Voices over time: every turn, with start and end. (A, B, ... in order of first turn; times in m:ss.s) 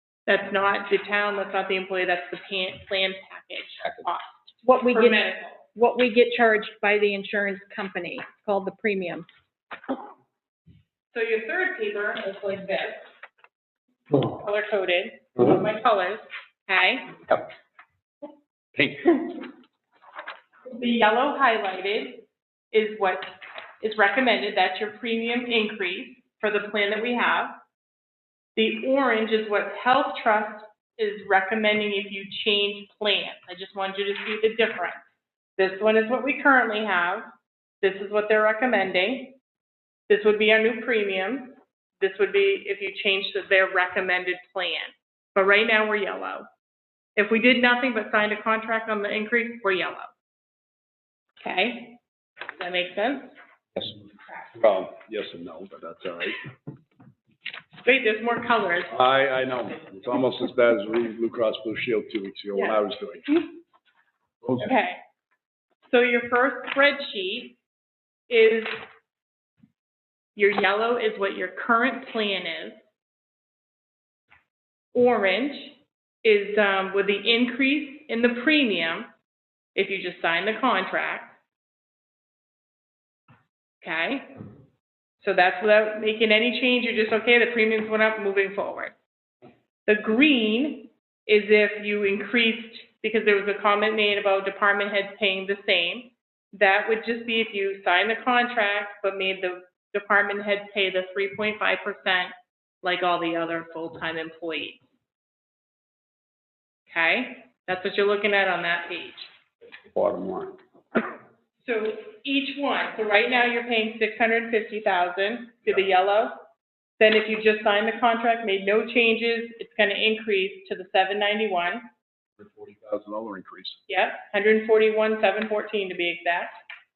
0:00.3-0:05.7 A
0:04.6-0:09.3 B
0:11.1-0:13.1 A
0:14.1-0:17.3 A
0:18.8-0:19.3 C
0:20.7-0:27.5 A
0:28.6-0:35.0 A
0:35.6-0:37.3 A
0:37.8-0:39.4 A
0:40.1-0:46.5 A
0:47.2-0:50.1 A
0:51.4-0:52.0 A
0:52.6-0:53.3 A
0:54.6-0:56.4 C
0:57.8-0:58.9 A
0:58.9-1:03.4 C
1:02.5-1:02.8 A
1:04.6-1:05.0 A
1:05.9-1:07.6 A
1:08.3-1:08.8 A
1:10.4-1:12.8 A
1:14.9-1:19.1 A
1:19.8-1:21.4 A
1:23.8-1:24.4 A
1:25.2-1:29.0 A
1:29.9-1:44.8 A
1:46.9-1:49.3 A
1:49.9-1:50.6 C
1:51.6-1:56.4 A
1:57.0-2:01.9 A
2:02.4-2:03.8 C
2:03.9-2:06.6 A